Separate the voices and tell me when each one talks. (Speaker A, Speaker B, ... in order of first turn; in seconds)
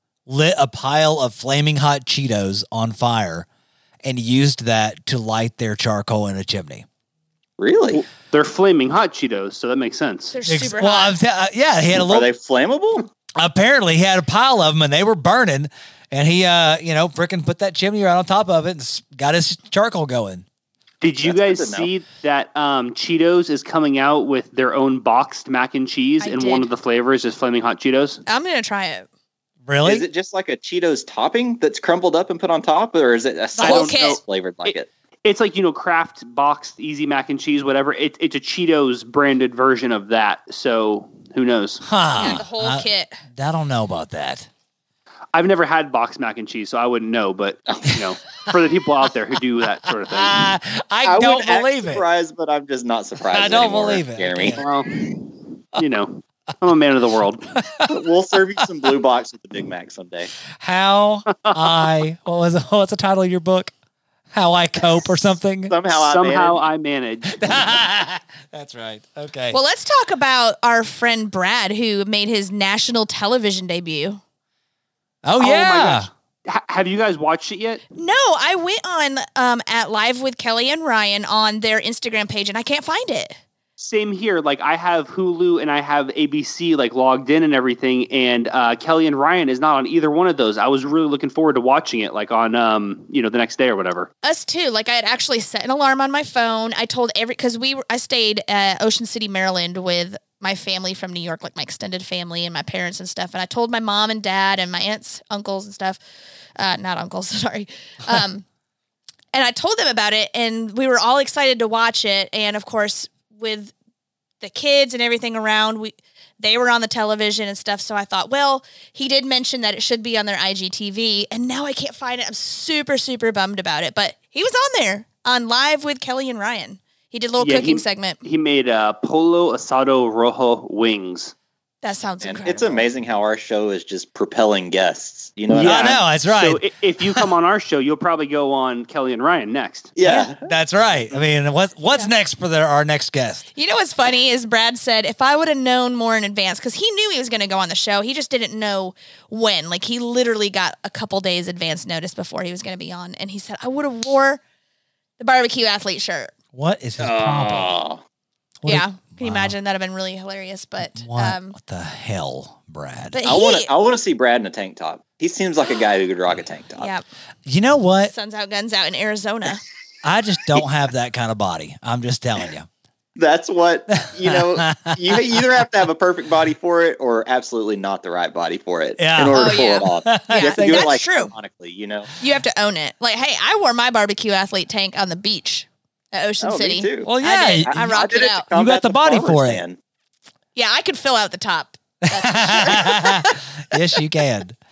Speaker A: 0.3-3.5, 4.0-6.8, 10.5-12.3, 13.4-20.4, 29.7-30.1, 41.9-44.5, 49.9-52.0, 53.3-54.6, 57.6-58.0, 60.6-63.7, 64.3-65.8, 67.3-69.6, 75.2-76.1, 135.5-137.3, 140.0-143.4, 156.5-157.8, 158.7-159.6, 161.0-163.2, 167.5-168.1, 170.0-172.7, 174.0-175.2, 179.0-180.9, 187.0-189.6, 192.1-194.6
Speaker B: 7.6-8.0, 12.0-13.1, 21.2-21.9, 29.8-34.9, 51.0-54.7, 57.9-60.3, 65.7-66.6, 132.2-136.0, 140.0-140.4, 157.0-158.0, 163.2-166.9, 173.2-182.1, 186.4-187.1, 187.7-189.8
Speaker C: 8.0-10.3, 21.0-28.2, 33.6-42.3, 45.3-50.4, 54.6-57.5, 61.3-61.7, 65.9-67.4, 75.4-77.8, 83.8-94.1, 127.4-131.3, 136.4-139.9
Speaker D: 10.3-11.2, 26.2-26.7, 28.3-29.1, 33.6-34.2, 42.2-43.2, 69.5-74.2, 78.0-83.4, 94.2-106.0, 106.6-108.5, 109.3-113.7, 114.4-128.2, 131.8-132.9, 143.6-154.4, 155.2-156.3, 158.7-161.5, 163.1-163.7, 166.8-167.0, 168.1-169.6, 179.3-181.3, 182.2-188.5, 190.6-193.4